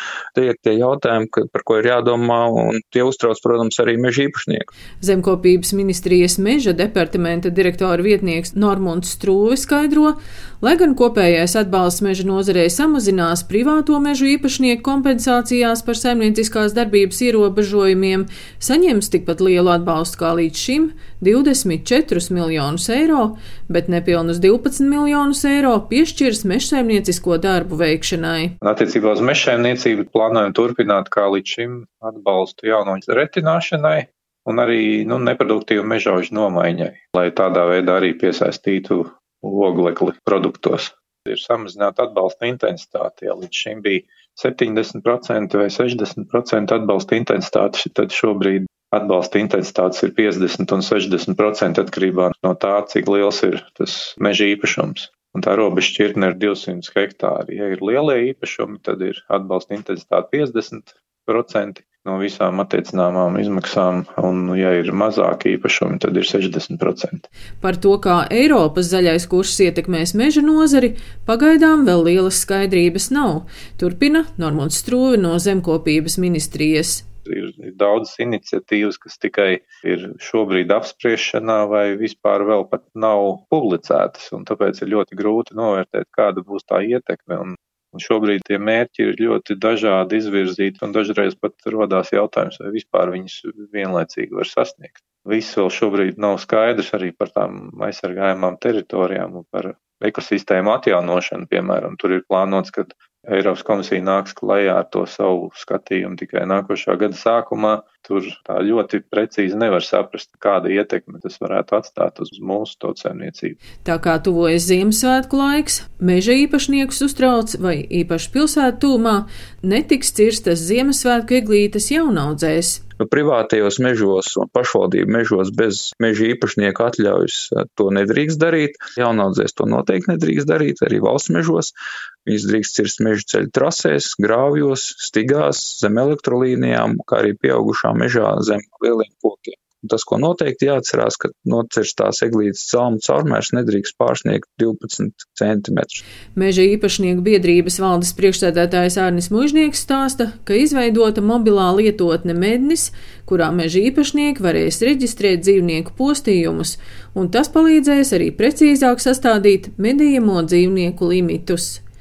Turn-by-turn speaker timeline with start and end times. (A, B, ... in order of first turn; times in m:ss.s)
0:00.3-0:04.7 A
0:05.0-0:28.6 B
0:28.6-1:07.2 C
1:07.6-1:17.0 B
1:17.3-1:53.6 C
1:53.8-2:02.8 B
2:03.0-2:11.7 A
2:12.2-2:26.0 A
2:26.4-2:41.8 B